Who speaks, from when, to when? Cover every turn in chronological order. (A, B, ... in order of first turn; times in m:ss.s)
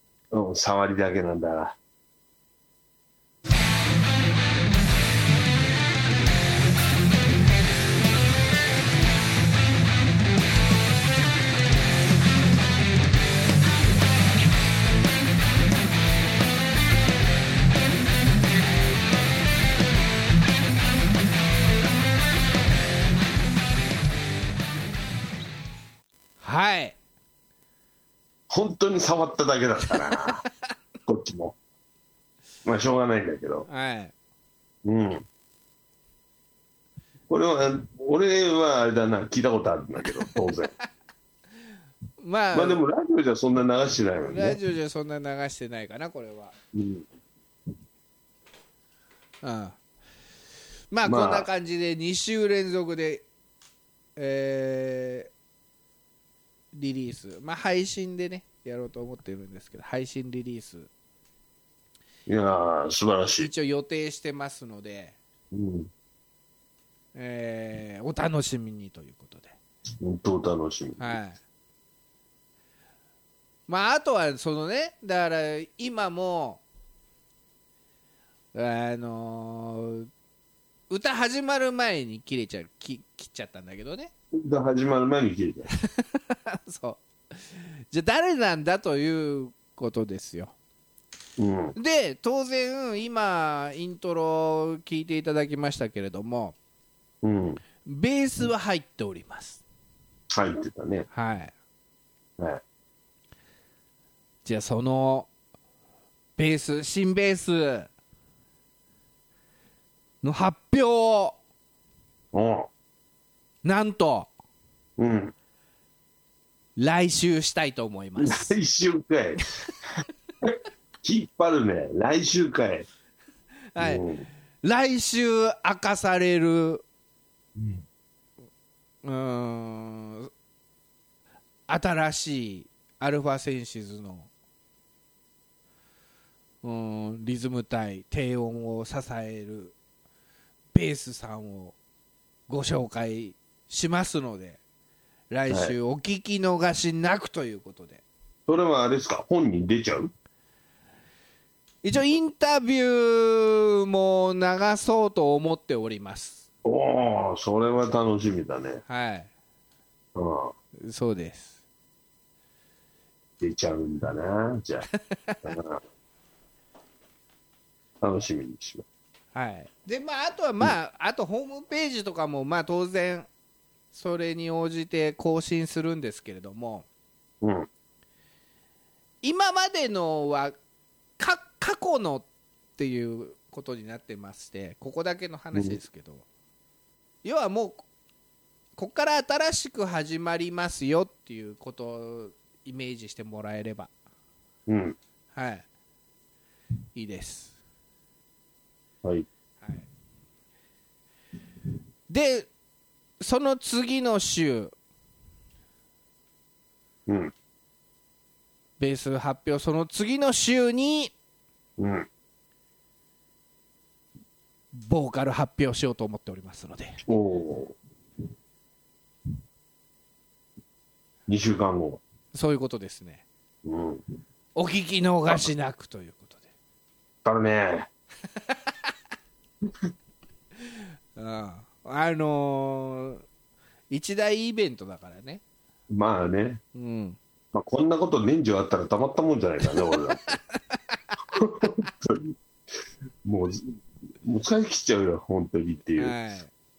0:00.3-0:01.8 A
0:26.4-0:27.0 B
0:28.5-0:30.4 A
0:30.0-0:30.3 B
0:31.0-0:31.6 A
0:32.6-0:33.7 A
0:33.7-0:34.1 B
0:34.8-0:35.2 A
0:37.3-0:40.7 A
0:42.2-0:42.8 B
0:42.5-0:44.6 A
0:44.3-0:46.5 B
0:46.7-0:47.0 A
0:49.4-0:49.8 B
0:50.9-0:53.2 B
0:51.0-0:51.5 A
0:54.2-0:55.3 B
0:56.7-1:00.9 B
1:02.3-1:03.5 A
1:03.4-1:05.2 B
1:05.5-1:05.9 A
1:07.1-1:09.6 B
1:10.0-1:11.2 A
1:11.0-1:11.4 B
1:13.7-1:16.6 B
1:18.5-1:20.1 B
1:20.9-1:24.1 B
1:24.3-1:25.7 A
1:25.8-1:30.5 B
1:31.4-1:31.8 A
1:31.8-1:36.6 B
1:37.2-1:37.6 A
1:37.8-1:39.6 B
1:40.3-1:41.1 A
1:41.1-1:41.5 B
1:44.4-1:45.3 B
1:46.4-1:47.9 B
1:50.2-1:51.4 B
1:52.3-1:52.7 A
1:53.6-1:54.3 B
1:55.0-1:55.3 A
1:56.8-1:58.5 B
1:58.2-1:59.5 A
2:00.4-2:02.9 A
2:03.7-2:04.0 B
2:03.8-2:04.2 A
2:04.6-2:06.8 B
2:07.6-2:07.8 A
2:09.0-2:10.3 B
2:11.7-2:14.3 B
2:16.6-2:19.7 B
2:20.7-2:21.8 B
2:22.5-2:24.6 B
2:25.3-2:28.0 B
2:25.5-2:25.8 A
2:28.5-2:30.1 A
2:31.8-2:36.4 B
2:36.6-2:38.8 A
2:38.8-2:39.3 B
2:40.1-2:40.5 A
2:40.8-2:41.5 B
2:43.4-2:44.9 A
2:45.4-2:45.8 A
2:48.0-2:48.8 A
2:49.3-2:53.3 B
2:53.9-2:56.8 B
2:57.4-2:57.7 A
2:59.2-3:00.6 B
3:01.2-3:06.2 B
3:05.5-3:05.8 A
3:07.2-3:07.8 B
3:08.8-3:13.9 B
3:14.7-3:15.0 A
3:15.3-3:15.6 B
3:16.9-3:17.6 B
3:19.6-3:19.9 B
3:22.1-3:22.5 B
3:23.2-3:24.7 B
3:27.1-3:27.3 A
3:28.8-3:31.1 B
3:31.8-3:32.1 A
3:34.7-3:37.0 B
3:37.0-3:37.7 A
3:41.3-3:42.0 A
3:42.3-3:43.2 B
3:43.6-3:44.0 A
3:44.6-3:46.4 B
3:47.2-3:47.9 A
3:48.3-3:48.7 B
3:50.6-3:53.2 B
3:53.9-3:55.4 B
3:55.9-3:56.6 A
3:56.7-3:57.2 B
3:57.5-4:00.4 A
4:00.7-4:01.2 B
4:01.3-4:02.4 A
4:03.2-4:06.2 A
4:06.0-4:06.5 B